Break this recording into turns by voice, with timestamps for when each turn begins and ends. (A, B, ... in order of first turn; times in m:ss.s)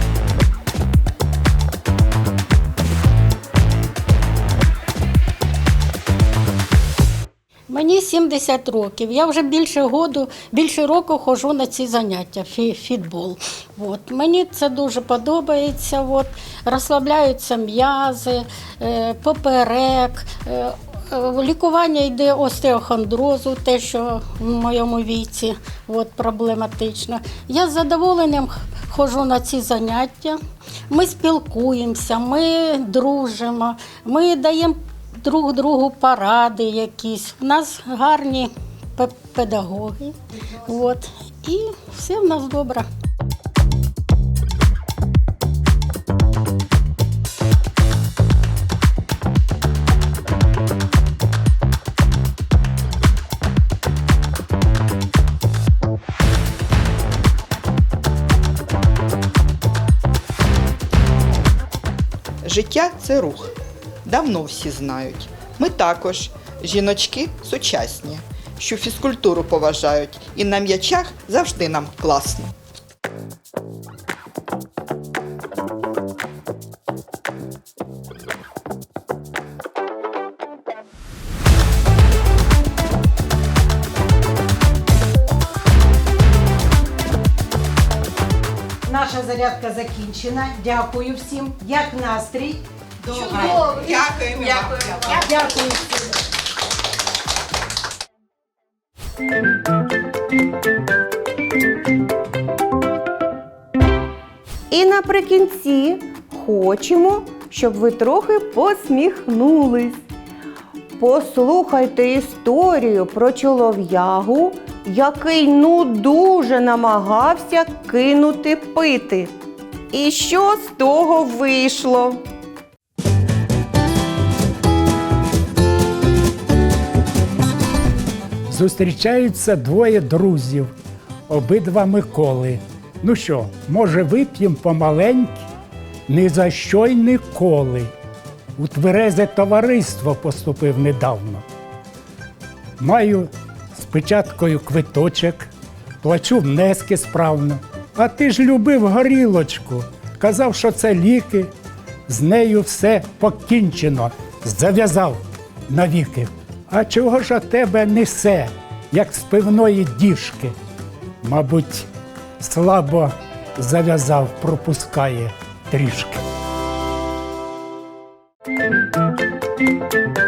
0:07.7-0:42.9 A
1:02.4-1:03.5 B
1:04.0-1:12.5 B
1:28.9-1:32.6 C
1:33.0-1:35.2 B
1:33.3-1:33.6 C
1:35.1-1:36.1 C
1:44.7-1:50.0 D
1:51.0-1:59.4 D
1:59.9-2:02.2 D
2:08.5-2:10.7 E
2:11.3-2:15.4 E
2:16.1-2:17.9 E
2:18.6-2:21.4 E
2:22.8-2:25.5 E
2:26.0-2:31.5 E
2:32.1-2:40.6 E
2:41.2-2:41.9 E
2:42.4-2:46.2 E